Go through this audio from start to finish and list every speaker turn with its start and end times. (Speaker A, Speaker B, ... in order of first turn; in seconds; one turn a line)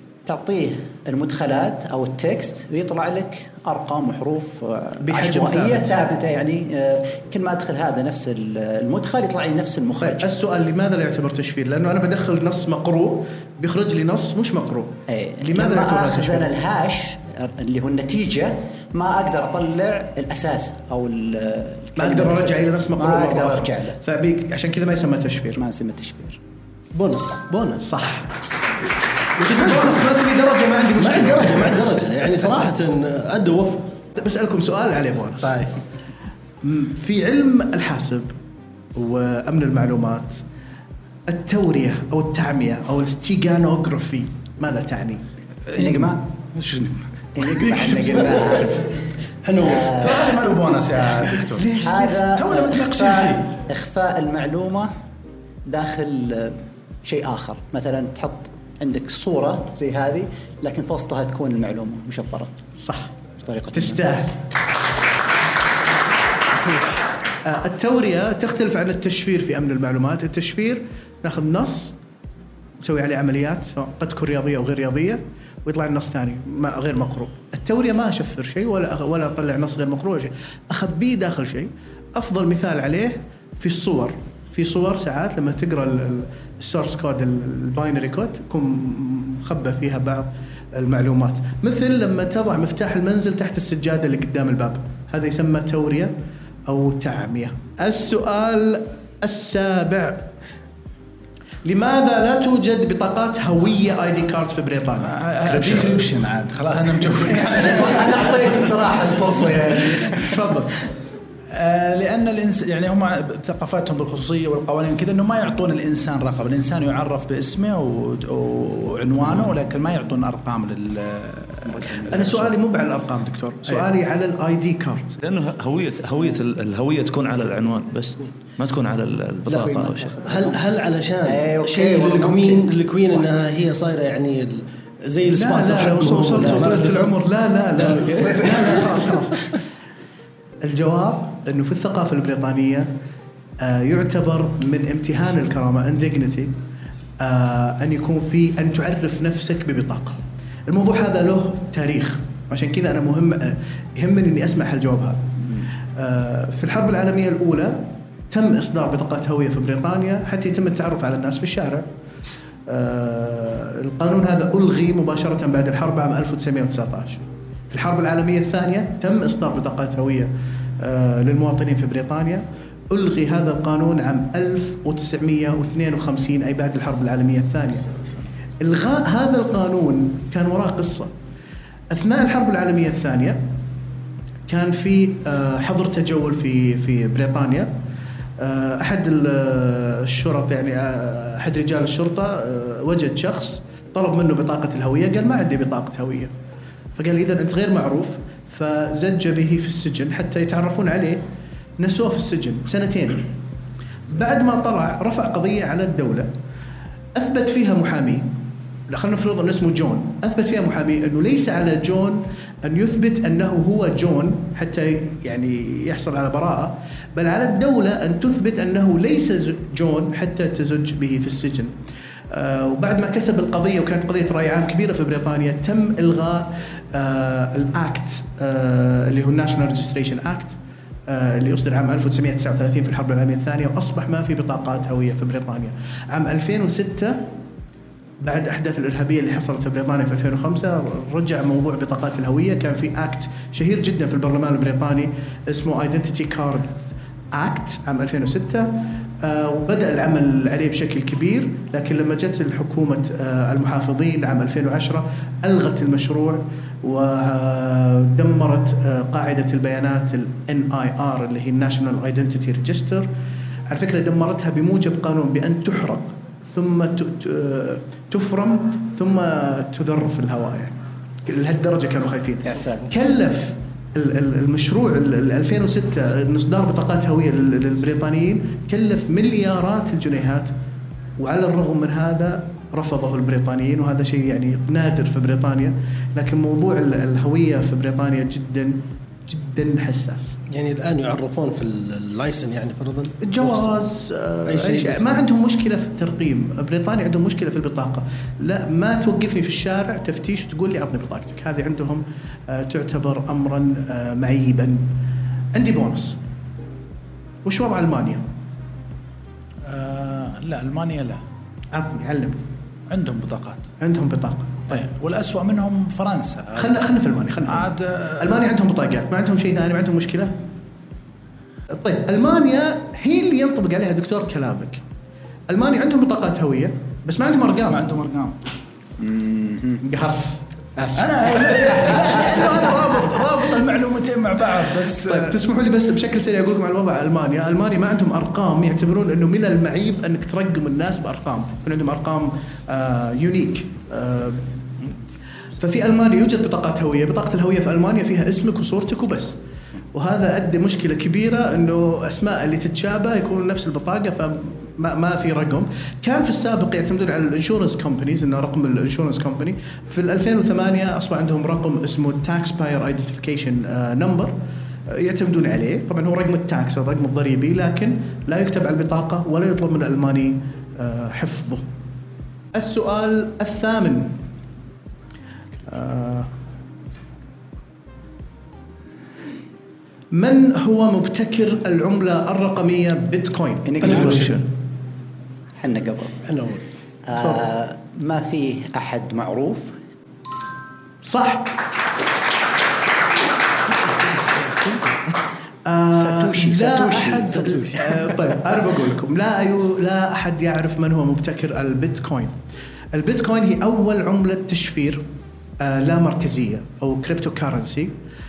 Speaker A: 0.3-10.3
Speaker B: 5.0-6.0
Speaker B: 10.0-16.5
Speaker A: 15.1-24.0
Speaker B: 22.0-25.6
Speaker A: 25.6-26.4
Speaker C: 26.9-27.8
Speaker B: 27.8-28.3
Speaker C: 29.4-30.2
Speaker B: 29.4-31.8
Speaker C: 31.0-33.9
Speaker B: 34.2-35.6
Speaker B: 36.6-38.3
Speaker B: 39.0-40.4
Speaker B: 41.3-45.2
Speaker D: 45.7-48.6
Speaker A: 45.8-46.2
Speaker A: 47.4-48.9
Speaker C: 49.4-50.0
Speaker A: 49.6-50.4
Speaker D: 49.9-53.4
Speaker B: 51.4-52.2
Speaker A: 51.8-54.9
Speaker A: 55.7-62.5
Speaker B: 62.8-63.2
Speaker A: 63.4-64.0
Speaker B: 63.7-64.5
Speaker B: 67.4-72.0
Speaker B: 72.8-96.1
Speaker B: 96.7-100.3
Speaker B: 101.6-106.0
Speaker D: 105.0-108.4
Speaker A: 107.5-110.2
Speaker B: 110.2-110.7
Speaker D: 111.5-122.5
Speaker A: 121.7-122.1
Speaker B: 122.1-125.2
Speaker E: 125.2-130.2
Speaker A: 129.5-130.6
Speaker C: 130.2-137.2
Speaker A: 131.2-133.5
Speaker B: 135.3-139.4
Speaker C: 137.8-139.3
Speaker B: 140.6-142.9
Speaker B: 143.6-146.6
Speaker B: 147.2-161.9
Speaker B: 162.7-178.1
Speaker B: 178.6-181.1
Speaker B: 181.9-183.5
Speaker B: 184.5-187.8
Speaker B: 188.4-196.3
Speaker B: 197.0-201.2
Speaker B: 201.8-203.3
Speaker B: 204.1-206.3
Speaker B: 207.2-208.3
Speaker B: 208.9-221.7
Speaker B: 222.3-237.3
Speaker B: 238.2-263.1
Speaker B: 263.7-280.5
Speaker A: 272.4-272.9
Speaker B: 281.2-290.4
Speaker C: 290.5-293.7
Speaker B: 293.2-304.9
Speaker C: 294.5-295.2
Speaker B: 305.5-306.2
Speaker B: 307.4-308.3
Speaker D: 309.7-311.2
Speaker B: 311.7-312.4
Speaker D: 312.9-313.7
Speaker B: 313.8-314.9
Speaker D: 314.7-316.8
Speaker B: 316.6-320.4
Speaker D: 317.5-318.4
Speaker B: 321.7-324.8
Speaker B: 325.5-327.9
Speaker D: 327.7-328.4
Speaker A: 329.0-329.9
Speaker B: 329.8-332.2
Speaker D: 330.9-335.4
Speaker B: 335.0-344.5
Speaker B: 345.6-349.4
Speaker B: 349.9-364.4
Speaker B: 364.9-371.7
Speaker B: 372.5-374.2
Speaker B: 375.6-376.3
Speaker B: 380.1-384.5
Speaker A: 383.6-384.4
Speaker A: 385.6-386.2
Speaker C: 386.3-386.6
Speaker A: 387.1-389.8
Speaker B: 387.2-387.4
Speaker B: 391.0-391.6
Speaker B: 395.6-402.4
Speaker A: 395.9-397.9
Speaker B: 402.9-405.1
Speaker B: 405.6-407.9